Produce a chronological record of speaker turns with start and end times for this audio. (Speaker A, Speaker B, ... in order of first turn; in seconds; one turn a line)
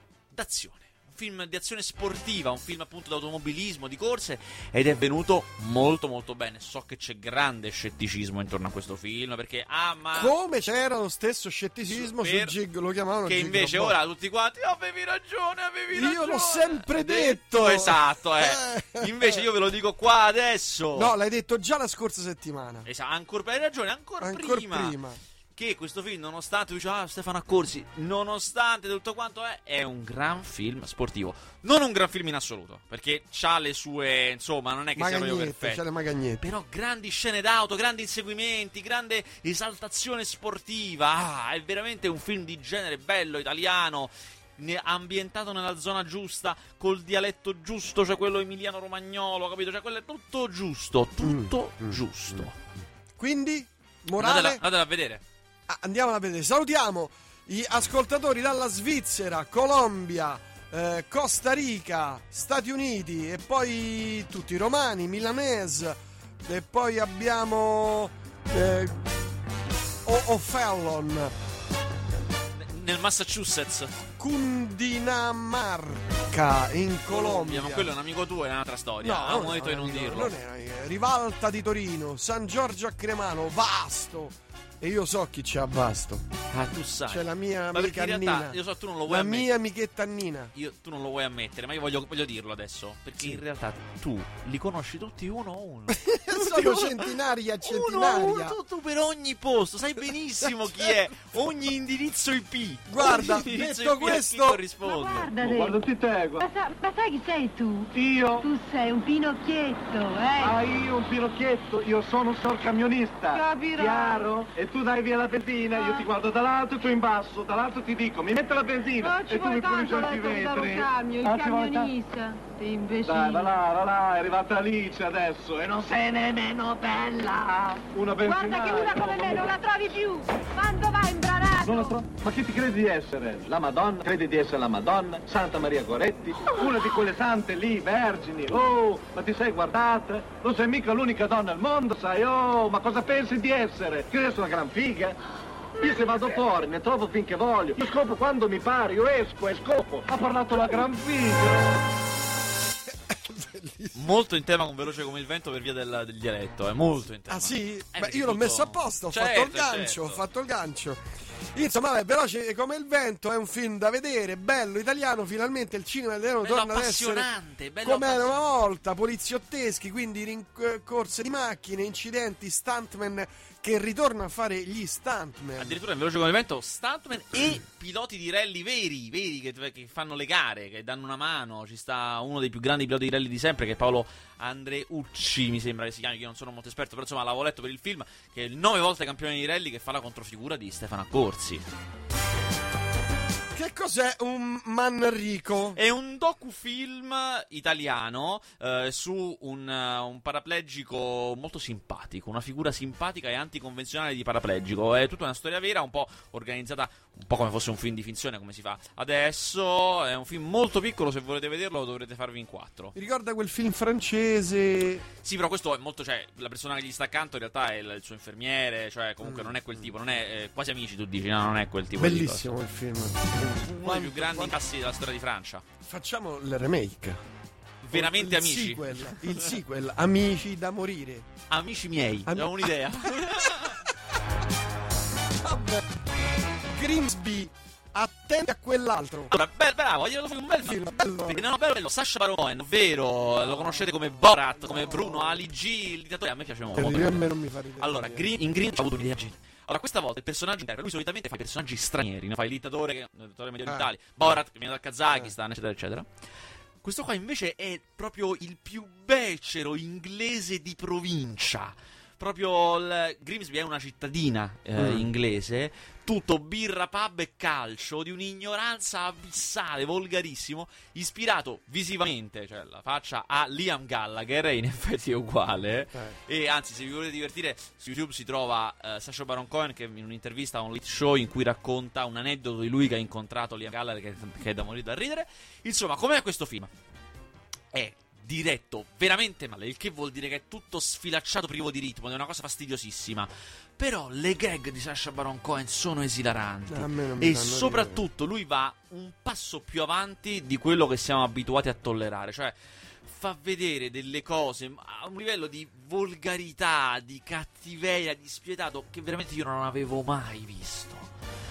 Speaker A: 0.3-10.3
Speaker B: 10.1-13.9
Speaker A: 11.9-12.6
Speaker A: 13.2-21.1
Speaker B: 15.9-19.4
Speaker B: 20.9-22.9
Speaker A: 22.9-25.0
Speaker B: 24.2-25.2
Speaker A: 25.5-35.8
Speaker B: 35.0-36.4
Speaker A: 36.4-52.6
Speaker B: 51.2-52.0
Speaker B: 53.2-54.6
Speaker A: 54.2-55.2
Speaker B: 55.7-69.0
Speaker B: 70.0-71.3
Speaker A: 72.6-74.0
Speaker B: 74.2-77.9
Speaker A: 77.1-80.3
Speaker B: 79.0-86.2
Speaker A: 86.5-89.5
Speaker B: 87.1-90.5
Speaker A: 90.5-105.3
Speaker B: 95.9-98.6
Speaker B: 102.9-104.6
Speaker C: 104.8-105.8
Speaker D: 105.4-106.4
Speaker C: 106.4-110.6
Speaker D: 107.9-108.5
Speaker D: 110.4-121.9
Speaker C: 113.3-114.3
Speaker C: 115.7-116.0
Speaker C: 119.0-123.5
Speaker D: 123.0-129.6
Speaker C: 128.2-132.0
Speaker D: 131.6-145.2
Speaker D: 145.8-151.7
Speaker B: 152.9-153.9
Speaker A: 153.9-160.2
Speaker B: 157.3-161.0
Speaker B: 161.5-167.3
Speaker A: 166.4-168.4
Speaker B: 167.8-175.8
Speaker A: 175.6-191.6
Speaker B: 193.5-195.8
Speaker A: 195.7-212.9
Speaker B: 212.9-215.0
Speaker A: 215.2-222.5
Speaker B: 219.2-219.9
Speaker B: 222.0-224.6
Speaker A: 223.6-225.6
Speaker B: 225.8-227.2
Speaker A: 227.8-229.5
Speaker B: 227.9-231.2
Speaker A: 231.5-233.8
Speaker B: 232.3-232.7
Speaker B: 235.4-235.9
Speaker B: 236.7-239.3
Speaker A: 239.3-247.2
Speaker B: 240.6-241.4
Speaker B: 243.4-245.4
Speaker B: 246.7-248.3
Speaker A: 247.8-256.1
Speaker A: 256.8-286.7
Speaker B: 264.8-265.1
Speaker A: 287.7-311.1
Speaker B: 296.7-298.0